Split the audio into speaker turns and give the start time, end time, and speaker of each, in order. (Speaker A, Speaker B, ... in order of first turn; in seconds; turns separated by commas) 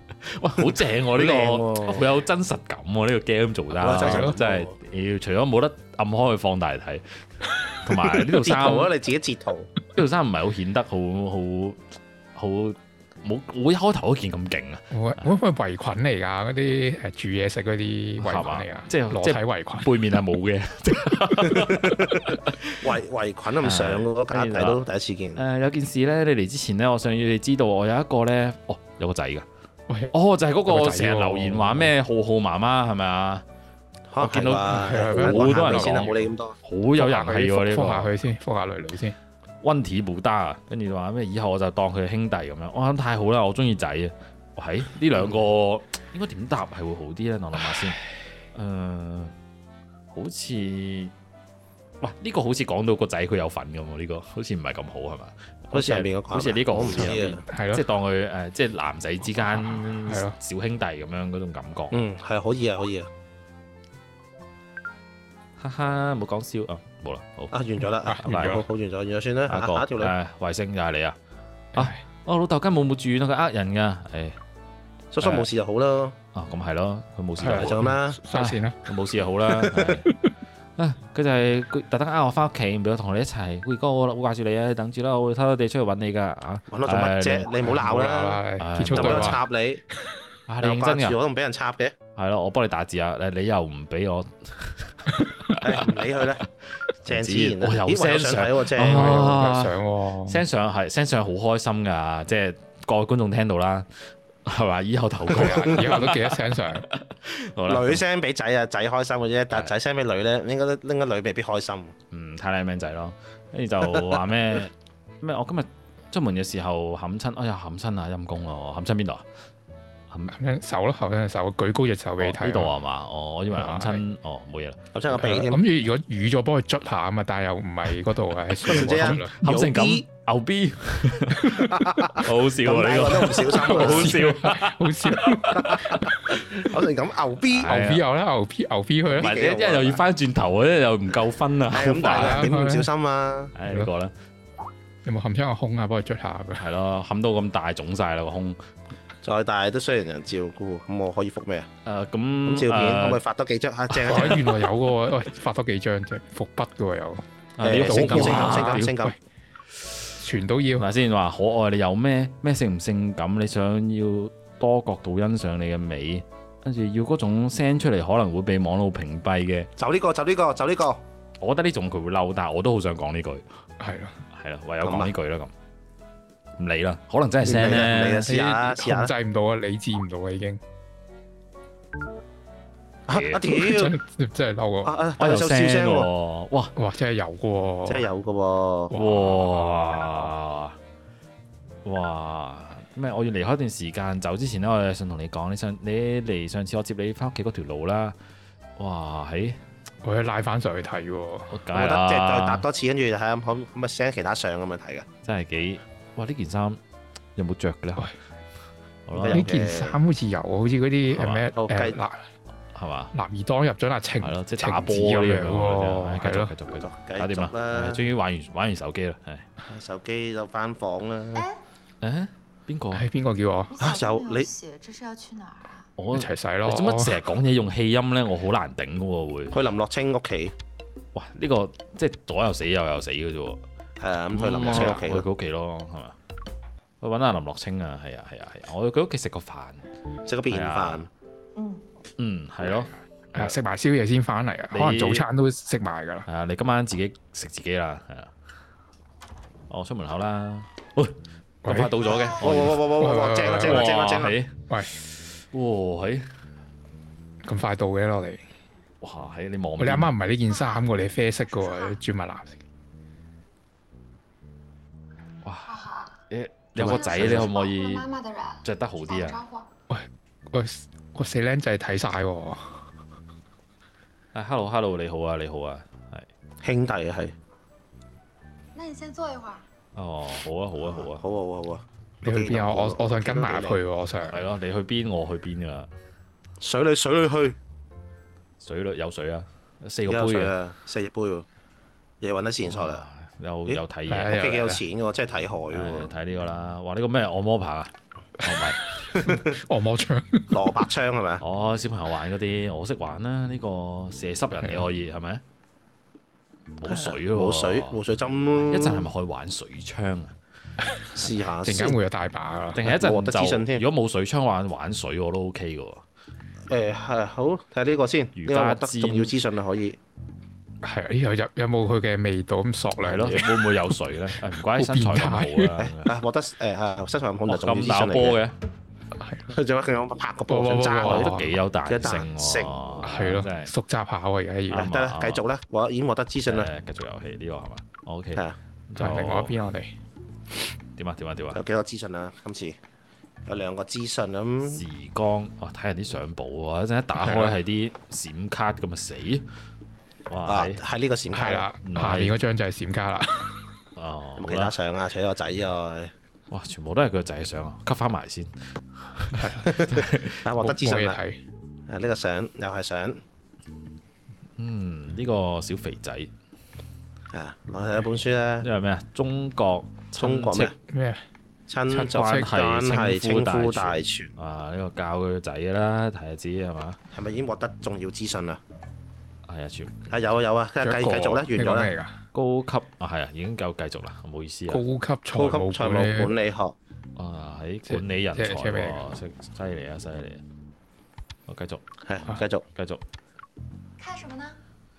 Speaker A: 0.2-7.0, Speaker B: 1.1-2.0, Speaker B: 3.7-4.7, Speaker C: 3.9-4.3, Speaker A: 7.8-8.9, Speaker B: 8.2-9.7, Speaker A: 9.9-11.8, Speaker A: 12.3-14.8, Speaker C: 14.9-19.9, Speaker A: 18.2-22.9, Speaker B: 21.6-22.2, Speaker B: 22.8-25.4, Speaker A: 23.6-24.8, Speaker A: 25.4-29.4, Speaker C: 29.9-30.1, Speaker A: 30.1-33.4, Speaker C: 30.7-31.9, Speaker B: 34.1-36.6, Speaker A: 34.2-38.1, Speaker C: 34.6-36.1, Speaker C: 37.0-39.1, Speaker A: 39.6-48.0, Speaker A: 48.5-49.3, Speaker A: 50.1-51.1, Speaker A: 52.0-62.0, Speaker B: 55.7-57.4, Speaker C: 56.8-57.8, Speaker C: 59.3-60.4, Speaker B: 61.9-63.1, Speaker A: 65.6-67.6, Speaker B: 67.5-70.1, Speaker C: 68.0-68.6, Speaker A: 68.2-68.6, Speaker A: 69.5-71.2, Speaker C: 71.7-72.0, Speaker A: 71.7-74.4, Speaker B: 75.1-76.2, Speaker A: 75.2-75.5, Speaker A: 76.3-80.1, Speaker C: 77.4-78.8, Speaker B: 77.5-78.2, Speaker C: 79.6-80.1, Speaker A: 80.8-87.5, Speaker B: 86.7-89.8, Speaker C: 87.6-89.4, Speaker A: 88.6-89.4, Speaker A: 90.5-91.2, Speaker B: 90.6-91.9, Speaker A: 92.2-95.1, Speaker B: 95.6-96.4, Speaker A: 97.0-108.0, Speaker B: 97.0-99.3, Speaker C: 98.8-100.4, Speaker C: 105.3-106.8, Speaker B: 105.3-106.0, Speaker B: 107.7-111.9, Speaker A: 112.1-119.2, Speaker B: 113.8-114.1, Speaker C: 120.3-122.7, Speaker A: 122.2-125.4, Speaker C: 123.5-124.0, Speaker B: 124.9-125.6, Speaker C: 125.2-129.3, Speaker B: 128.6-130.0, Speaker A: 128.7-135.7, Speaker B: 131.5-134.2, Speaker C: 133.4-136.1, Speaker B: 135.5-136.0, Speaker B: 136.6-137.7, Speaker A: 137.5-138.0, Speaker C: 137.6-139.3, Speaker B: 139.1-140.0, Speaker A: 139.2-142.5, Speaker B: 141.7-143.5, Speaker C: 142.0-142.9, Speaker A: 143.5-144.1, Speaker C: 145.0-146.6, Speaker A: 146.6-148.6, Speaker B: 149.2-151.7, Speaker A: 151.8-153.2, Speaker B: 152.4-154.6, Speaker C: 153.9-157.2, Speaker A: 157.6-158.9, Speaker B: 157.6-159.2, Speaker C: 157.8-159.2, Speaker C: 160.2-160.9, Speaker A: 160.8-169.7, Speaker B: 169.8-171.0, Speaker A: 171.4-173.4, Speaker C: 173.8-174.2, Speaker A: 174.3-175.5, Speaker B: 174.8-175.1, Speaker A: 176.6-178.3, Speaker B: 177.4-179.1, Speaker C: 177.6-180.6, Speaker B: 183.1-184.0, Speaker A: 183.1-183.4, Speaker C: 183.4-184.9, Speaker B: 184.8-186.1, Speaker A: 185.2-186.7, Speaker C: 186.8-188.1, Speaker B: 187.8-188.9, Speaker C: 188.9-190.3, Speaker A: 188.9-190.8, Speaker A: 191.8-198.2, Speaker A: 198.8-199.6, Speaker C: 200.0-201.5, Speaker A: 201.5-202.6, Speaker B: 201.7-205.1, Speaker A: 205.2-206.8, Speaker A: 207.3-208.1, Speaker A: 209.1-209.5, Speaker B: 209.1-210.0, Speaker C: 209.3-212.2, Speaker A: 211.1-211.4, Speaker B: 211.5-212.0, Speaker A: 212.7-213.1, Speaker C: 213.1-216.5, Speaker A: 214.2-219.4, Speaker B: 216.8-218.1, Speaker B: 219.7-221.4, Speaker A: 222.0-223.0, Speaker C: 222.9-223.8, Speaker D: 223.7-225.9, Speaker B: 223.8-224.5, Speaker A: 226.0-229.6, Speaker C: 226.1-227.2, Speaker B: 229.5-230.5, Speaker A: 231.1-233.6, Speaker B: 234.0-235.2, Speaker A: 234.3-236.2, Speaker A: 237.0-239.8, Speaker B: 240.2-241.1, Speaker A: 240.5-241.1, Speaker D: 241.5-241.8, Speaker A: 242.2-243.5, Speaker C: 243.3-246.3, Speaker A: 244.7-245.2, Speaker A: 246.3-248.3, Speaker A: 249.7-252.9, Speaker C: 251.6-252.1, Speaker B: 252.2-254.3, Speaker C: 252.9-254.9, Speaker A: 253.6-254.5, Speaker A: 255.5-256.3, Speaker C: 257.4-258.4, Speaker A: 259.0-260.1, Speaker C: 259.8-262.6, Speaker E: 260.5-262.0, Speaker A: 265.4-265.7, Speaker E: 265.6-266.2, Speaker A: 266.3-268.1, Speaker B: 266.8-267.5, Speaker E: 266.8-269.7, Speaker A: 268.6-269.4, Speaker C: 269.9-272.8, Speaker A: 274.3-276.3, Speaker B: 276.6-277.3, Speaker E: 278.7-279.7, Speaker A: 279.9-281.2, Speaker B: 280.8-283.8, Speaker C: 282.2-284.5, Speaker A: 284.3-285.9, Speaker B: 286.6-287.6, Speaker A: 288.6-290.5, Speaker B: 290.1-291.4, Speaker B: 292.2-293.0, Speaker A: 292.6-294.4, Speaker B: 293.7-296.1, Speaker C: 294.1-294.8, Speaker A: 295.7-298.8, Speaker C: 298.4-300.6, Speaker B: 299.1-299.5, Speaker B: 300.5-301.4, Speaker A: 301.4-305.4, Speaker A: 306.8-308.0, Speaker B: 306.8-309.1, Speaker A: 308.7-310.3, Speaker B: 311.1-312.0, Speaker C: 311.6-312.8, Speaker A: 312.7-316.0, Speaker B: 312.8-313.8, Speaker B: 316.7-320.0, Speaker A: 318.4-319.3, Speaker C: 320.8-323.9, Speaker A: 323.0-326.1, Speaker C: 324.6-325.8, Speaker B: 325.8-328.4, Speaker A: 327.5-328.6, Speaker C: 329.1-329.5, Speaker B: 329.5-333.0, Speaker C: 330.5-331.5, Speaker A: 331.0-333.7, Speaker C: 333.0-334.9, Speaker A: 334.7-335.4, Speaker B: 334.7-336.7, Speaker A: 336.4-339.6, Speaker C: 339.0-339.9, Speaker A: 340.9-341.6, Speaker B: 341.5-342.8, Speaker B: 343.4-344.8, Speaker A: 344.6-349.4, Speaker C: 347.1-347.6, Speaker A: 350.3-350.8, Speaker B: 350.4-351.7, Speaker C: 351.3-353.6, Speaker A: 351.8-352.3, Speaker A: 353.9-354.7, Speaker B: 354.4-356.1, Speaker A: 356.5-360.4, Speaker C: 359.4-359.9, Speaker B: 359.7-361.2, Speaker C: 360.6-361.4, Speaker B: 361.9-363.2, Speaker A: 364.6-366.3, Speaker B: 367.3-368.7, Speaker A: 368.6-370.7, Speaker B: 370.1-370.7, Speaker C: 370.9-371.2, Speaker B: 371.7-374.3, Speaker C: 371.9-372.5, Speaker A: 372.1-377.0, Speaker B: 377.1-378.6, Speaker A: 379.4-380.0, Speaker B: 380.1-381.9, Speaker C: 380.8-382.2, Speaker A: 382.3-384.8, Speaker C: 384.7-386.3, Speaker B: 385.3-386.8, Speaker A: 387.1-390.4, Speaker C: 387.9-389.0, Speaker A: 391.5-391.8, Speaker B: 392.0-392.6, Speaker A: 392.7-393.0, Speaker E: 394.0-394.6